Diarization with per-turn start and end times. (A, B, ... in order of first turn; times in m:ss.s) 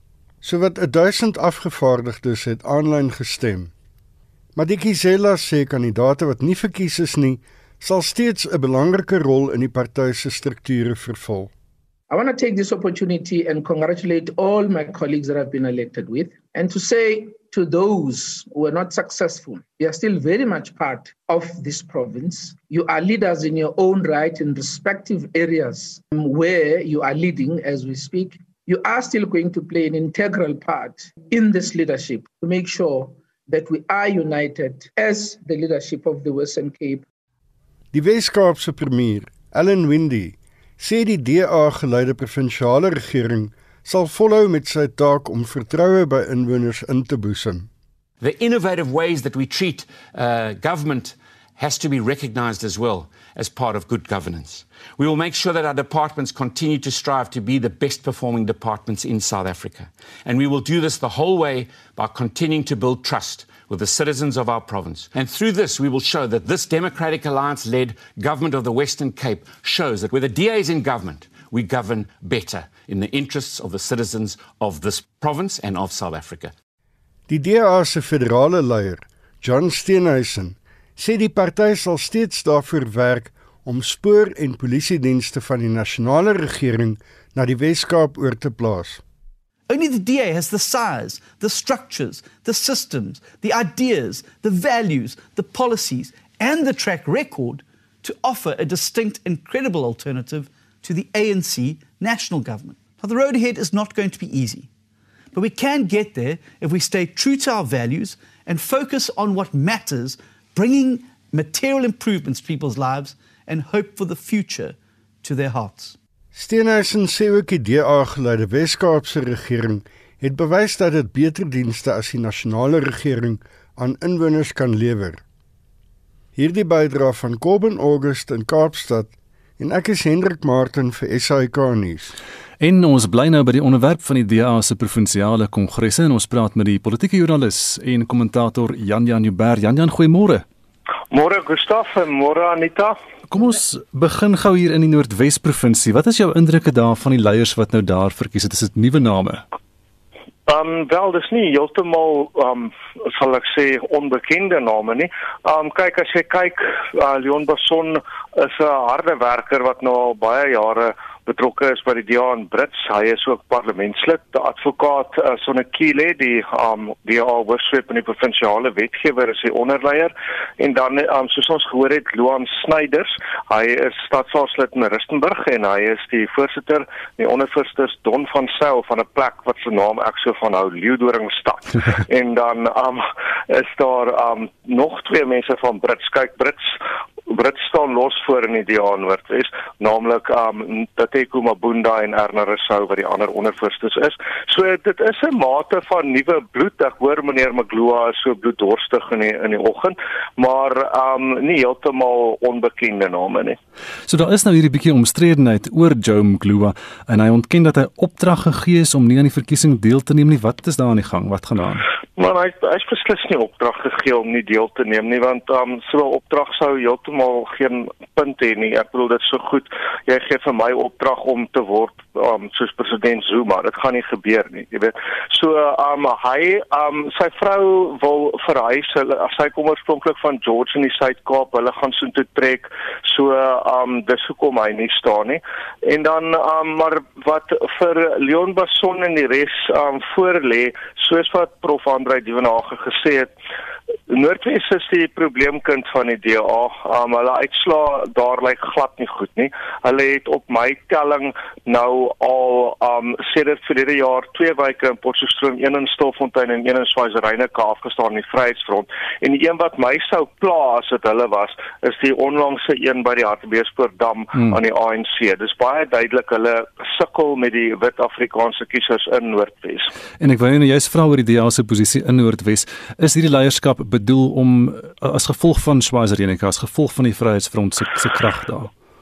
0:00.4-0:03.7 A
0:04.5-0:11.5 A
0:12.1-0:37.0 B
0:37.9-0:47.7 A
0:48.2-1:16.5 C
1:17.3-1:29.0 A
1:29.7-1:44.7 D
1:45.3-1:56.0 D
1:56.3-2:05.2 A
2:06.4-2:12.1 A
2:12.6-2:20.4 E
2:21.1-2:23.0 F
2:23.3-2:29.4 E
2:30.5-3:06.8 F
3:07.3-3:23.6 F
3:24.1-3:31.8 E
3:32.2-4:03.3 F
4:04.1-4:29.9 F
4:30.2-4:38.7 E